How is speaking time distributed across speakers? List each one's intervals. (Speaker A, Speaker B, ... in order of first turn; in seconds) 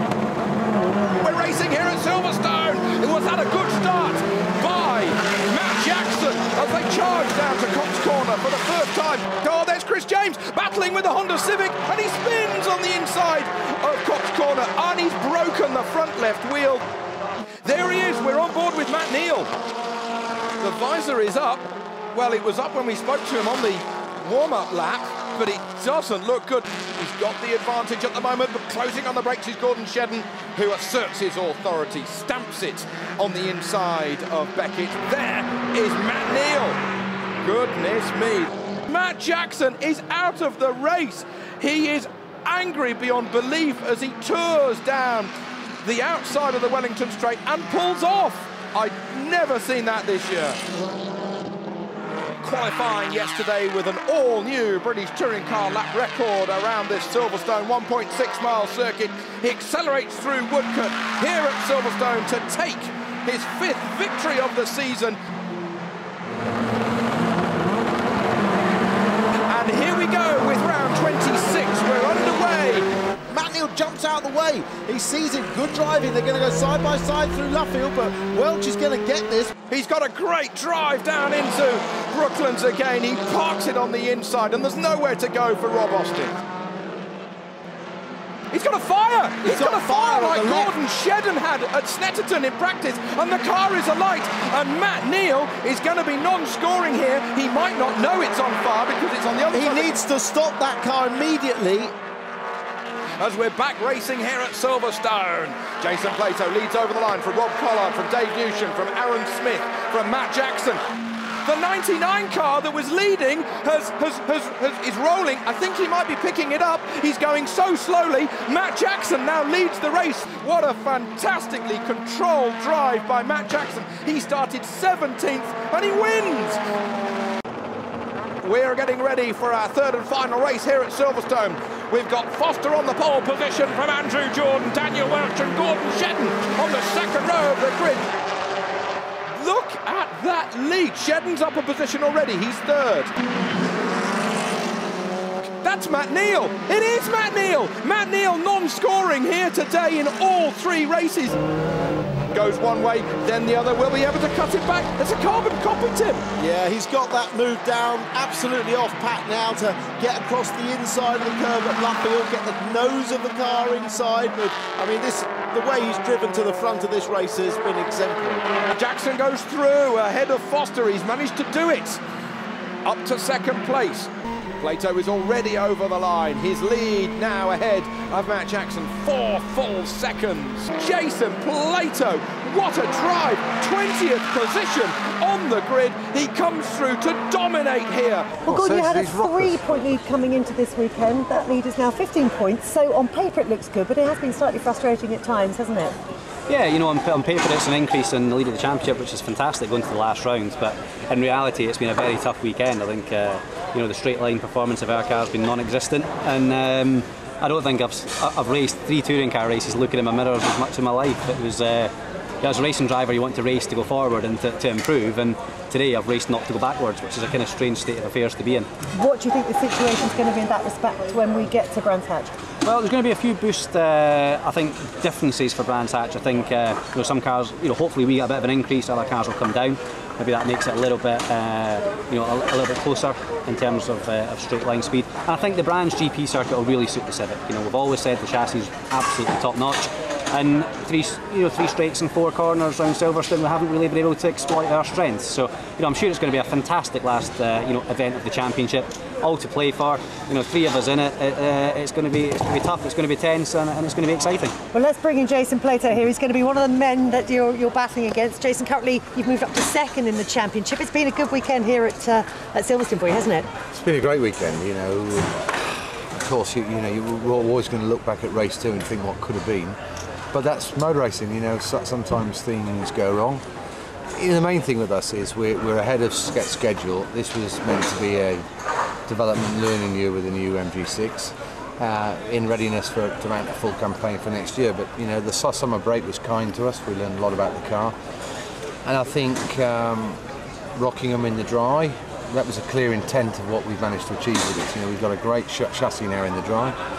Speaker A: 1.2-16.8, 17.6-19.5, 20.6-36.8, 37.4-50.6, 52.4-65.2, 69.5-72.8, 79.7-86.3, 88.5-100.0, 103.2-110.8, 111.4-126.6, 128.4-138.1, 139.3-143.1, 145.4-151.4, 152.3-156.2, 168.7-172.0, 172.8-188.4
Speaker B: 73.3-79.6, 89.5-90.7, 99.5-101.9, 156.4-168.4
Speaker C: 188.4-190.0, 263.7-269.8, 270.3-273.4, 274.1-278.4, 279.1-287.9, 288.8-290.2, 290.8-296.8
Speaker D: 188.5-195.9, 218.9-222.3, 254.7-263.5
Speaker E: 196.5-218.7, 222.6-254.5